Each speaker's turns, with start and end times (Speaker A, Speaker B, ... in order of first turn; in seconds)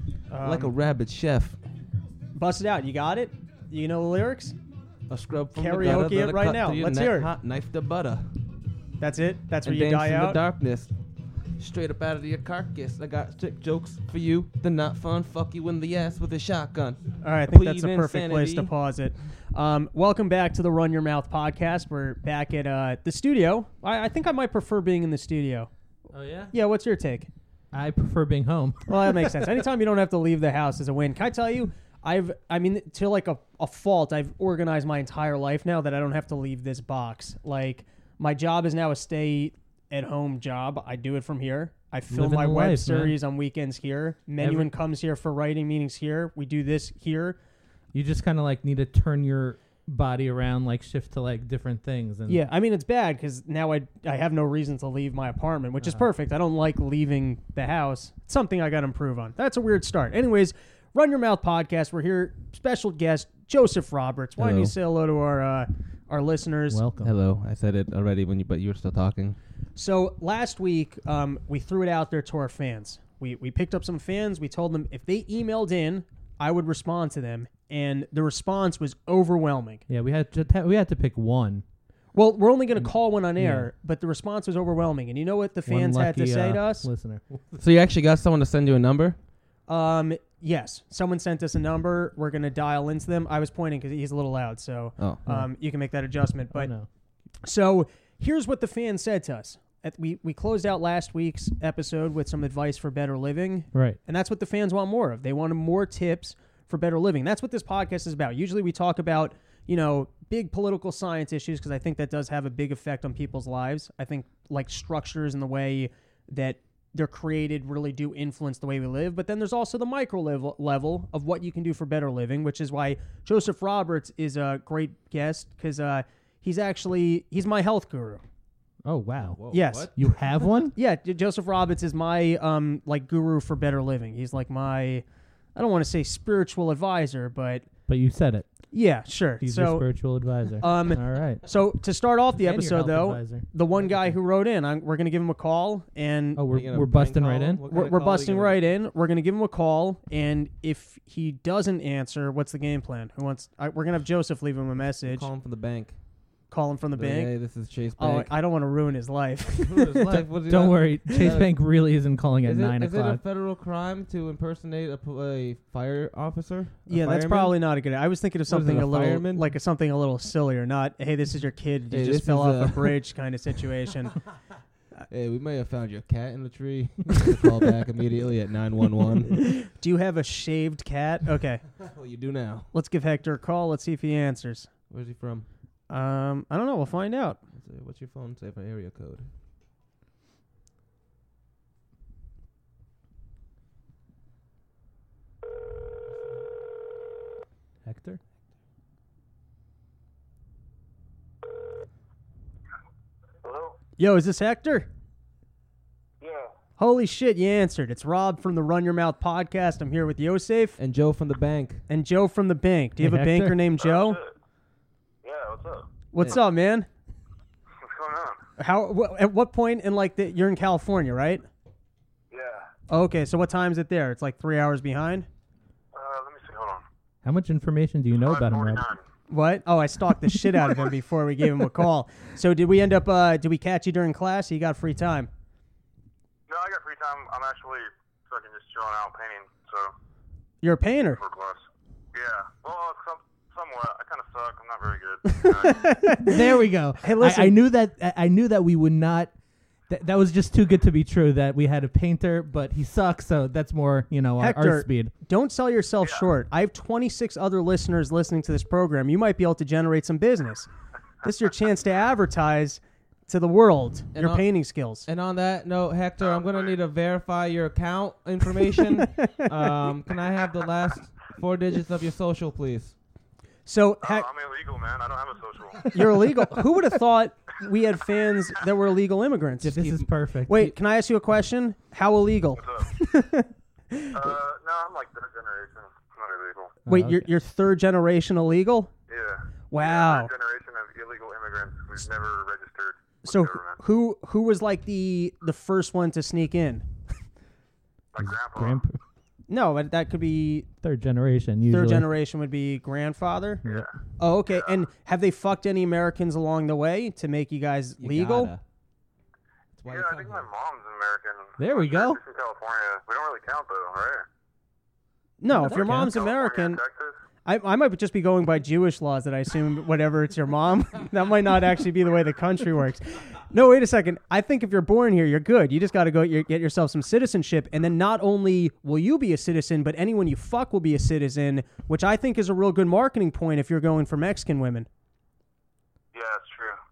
Speaker A: 0.3-0.7, 2.3-4.5, 5.5-7.3, 9.0-10.4, 17.2-25.7, 26.5-27.3, 28.9-47.4, 52.3-66.8, 69.8-79.8, 82.1-86.9, 89.7-96.7, 97.4-128.2, 129.5-129.9, 130.7-137.7, 138.7-139.9, 140.6-146.4, 147.7-155.3, 156.5-157.3, 157.9-160.2, 161.1-161.4, 166.9-174.2, 179.4-181.6, 182.7-184.7, 185.9-187.4, 204.0-204.9, 206.8-210.8, 211.9-214.2, 216.1-216.9, 218.6-221.4, 222.9-225.3, 229.3-235.3, 240.6-241.2, 245.3-247.5, 254.4-260.7, 261.2-265.1, 273.6-274.3, 275.9-279.8, 280.5-284.4, 286.9-288.9, 289.7-290.3, 293.2-296.9, 299.5-300.7, 301.7-303.6, 304.2-308.5, 315.4-316.8, 317.4-334.9
Speaker B: 0.4-1.6, 5.1-8.3, 9.6-10.9, 11.6-18.7, 64.4-64.7, 67.0-69.4, 87.6-89.2, 129.1-129.9, 146.5-148.6, 155.0-156.0, 157.0-158.3, 159.6-161.6, 162.4-167.6, 168.5-169.4, 171.9-173.0, 175.1-179.4, 181.8-182.7, 184.9-185.5, 187.5-189.3, 210.8-211.8, 264.1-264.5, 265.0-272.9, 279.6-280.7, 308.0-308.6, 309.7-310.5
Speaker C: 26.1-26.5, 27.7-29.4, 42.1-43.2, 44.4-44.7, 47.9-52.4, 66.7-67.1, 79.9-81.6, 82.8-83.7, 85.7-87.6, 96.5-96.9, 103.7-104.0, 128.8-129.4, 129.9-130.7, 137.9-138.7, 139.4-141.4, 142.4-144.0, 146.3-147.6, 160.5-163.2, 197.8-198.2, 213.0-213.6, 227.2-228.9, 246.2-249.3, 249.9-255.1, 275.8-276.6, 279.6-280.6, 286.9-287.3, 298.2-299.0, 300.8-302.1, 311.6-312.2, 315.6-316.1
Speaker D: 203.4-203.8, 206.2-206.5, 213.8-214.3, 215.2-215.9, 217.8-218.4, 222.3-222.7, 225.9-226.8, 228.2-229.0, 236.5-239.9, 241.2-246.1, 266.2-266.7, 274.0-275.9, 282.6-282.9, 284.1-286.7, 289.1-293.8, 298.1-298.8, 303.6-303.9, 309.9-314.3, 315.8-317.2, 336.1-336.8